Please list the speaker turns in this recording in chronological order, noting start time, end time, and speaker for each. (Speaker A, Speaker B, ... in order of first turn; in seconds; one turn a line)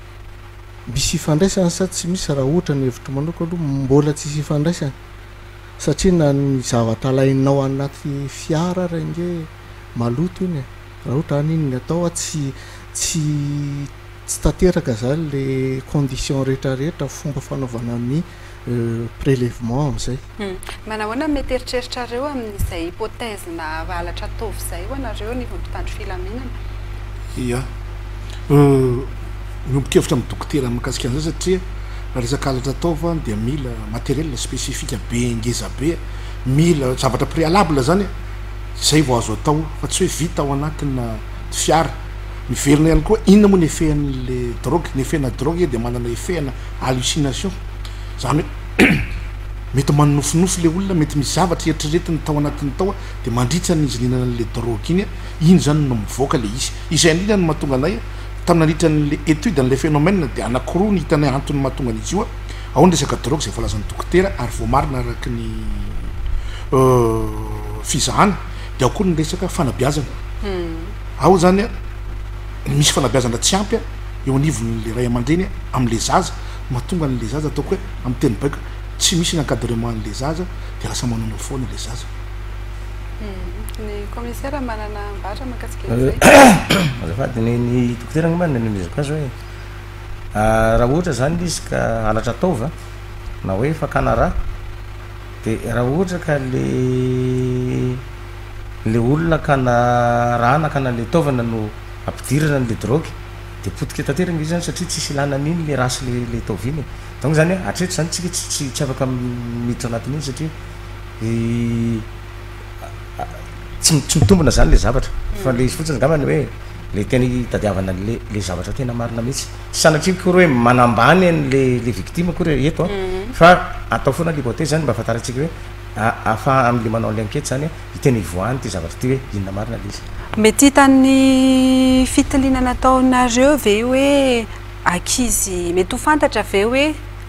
Speaker A: 0.9-5.0
Speaker A: 5.8-20.2
Speaker B: 20.4-26.5
Speaker C: 27.3-27.7
Speaker C: 28.5-29.1
Speaker C: 29.6-31.6
Speaker C: 32.1-38.1
Speaker C: 38.8-41.9
Speaker C: 42.5-47.5
Speaker C: 48.2-49.1
Speaker C: 49.7-66.1
Speaker C: 66.7-70.2
Speaker B: 70.4-70.9
Speaker C: 71.2-71.7
Speaker C: 72.7-82.1
Speaker B: 83.2-86.2
Speaker D: 85.9-89.3
Speaker D: 90.3-92.7
Speaker D: 93.4-94.3
Speaker D: 95.4-98.0
Speaker D: 98.8-110.5
Speaker D: 111.2-112.0
Speaker D: 113.2-130.0
Speaker B: 115.3-115.6
Speaker B: 122.9-123.3
Speaker B: 130.4-137.0